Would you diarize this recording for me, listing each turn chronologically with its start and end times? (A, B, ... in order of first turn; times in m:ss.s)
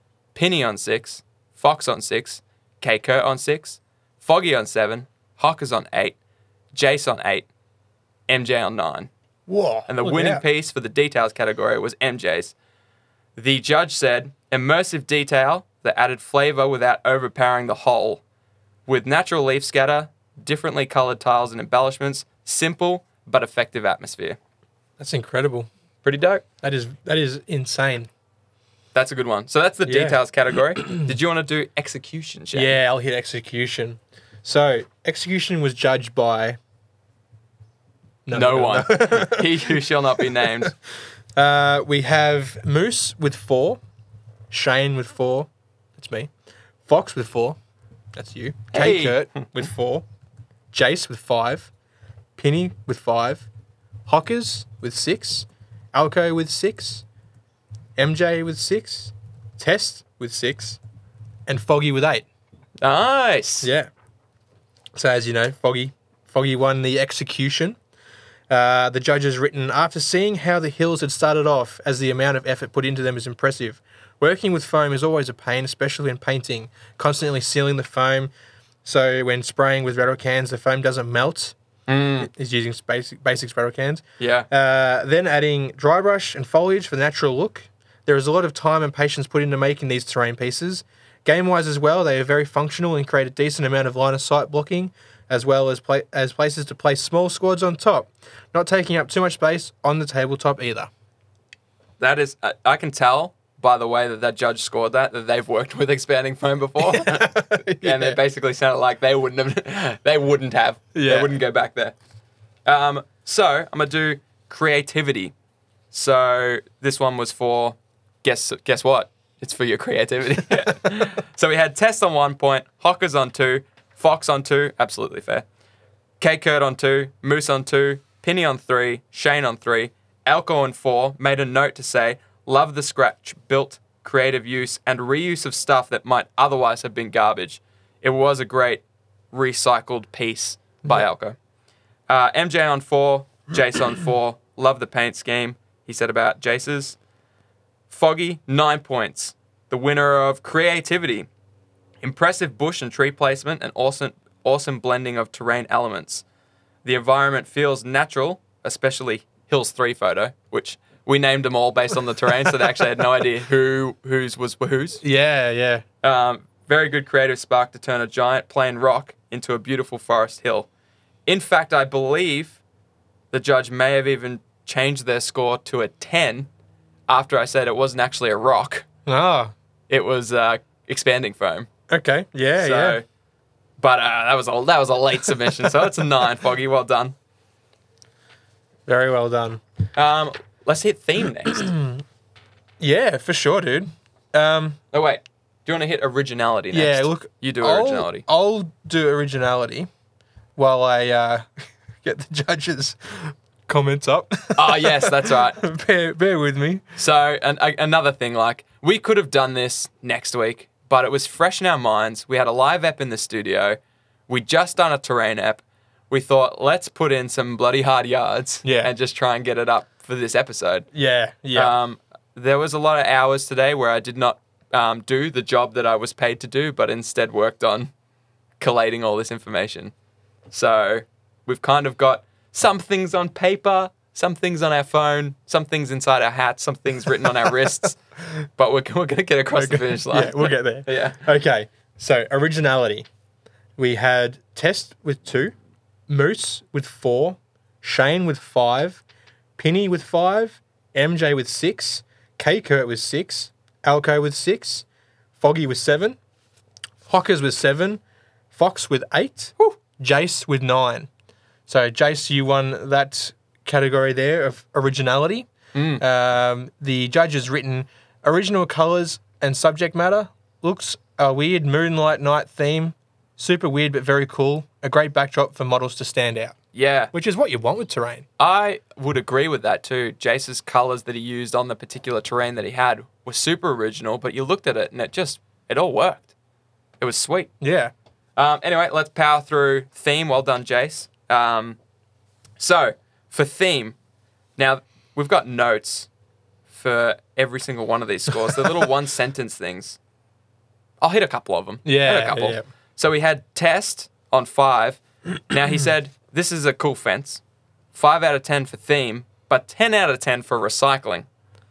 0:00.3-0:06.2 A
0:06.7-0:07.5 A
0:08.3-0:09.1 A
0:09.5-0:10.4 B
0:09.9-0:12.5 A
0:13.4-0:18.2 A
0:18.9-0:24.4 A
0:25.0-0:25.7 B
0:26.0-0:26.4 A
0:26.6-0:28.1 B
0:28.9-0:32.8 A
0:29.8-0:30.2 B
0:30.8-0:31.1 B
0:32.5-0:36.6 B
0:38.2-0:40.7 B
0:38.3-0:40.7 A
0:41.3-0:43.8 B
0:44.5-0:46.3 B
0:46.8-0:47.6 B
0:48.1-0:50.0 B
0:48.7-0:49.4 A
0:50.7-0:51.7 B
0:52.4-0:53.5 B
0:54.0-0:57.0 B
0:58.0-1:00.8 B
1:01.5-1:02.2 B
1:02.8-1:03.7 A
1:03.6-1:03.9 B
1:04.9-1:07.8 B
1:08.5-1:18.3 B
1:18.8-1:21.5 B
1:21.9-1:22.3 A
1:22.2-1:40.9 B
1:24.2-1:24.5 A
1:42.0-1:51.9 A
1:46.8-1:48.2 B
1:50.9-1:51.3 B
1:52.6-1:55.3 A
1:55.9-2:05.4 A
2:06.2-2:21.4 A
2:22.1-2:27.0 A
2:27.9-2:31.3 A
2:32.0-2:36.2 A
2:36.8-2:45.0 A
2:45.0-2:45.8 B
2:46.0-2:50.7 A
2:51.2-2:52.6 A
2:53.3-2:56.5 A
2:57.1-2:58.9 A
2:59.0-2:59.5 B
2:59.9-3:01.7 A
3:01.9-3:03.0 B
3:02.6-3:03.0 A
3:03.8-3:07.1 A
3:08.9-3:09.6 B
3:09.9-3:11.7 A
3:11.4-3:12.0 B
3:12.8-3:14.8 B
3:14.9-3:18.2 A
3:16.7-3:19.9 B
3:20.6-3:26.8 B
3:24.6-3:25.6 A
3:27.0-3:40.9 A
3:38.6-3:38.9 B
3:40.9-3:41.7 B
3:41.5-3:47.9 A
3:48.6-3:49.9 A
3:50.5-3:58.0 A
3:58.6-4:01.2 A
3:59.5-4:03.1 B
4:03.8-4:05.5 B
4:06.1-4:09.0 B
4:09.6-4:14.8 B
4:15.4-4:16.2 B
4:17.1-4:18.0 B
4:18.5-4:21.1 B
4:21.7-4:36.6 B
4:25.7-4:26.0 A
4:36.7-4:37.1 A
4:37.1-4:38.2 B
4:38.4-4:46.3 A
4:47.0-4:47.5 A
4:47.6-4:47.9 B
4:48.4-4:51.8 A
4:52.6-4:54.0 A
4:54.6-4:56.1 A
4:56.7-5:00.0 A
5:01.0-5:07.4 A
5:01.8-5:02.6 B
5:07.9-5:11.3 A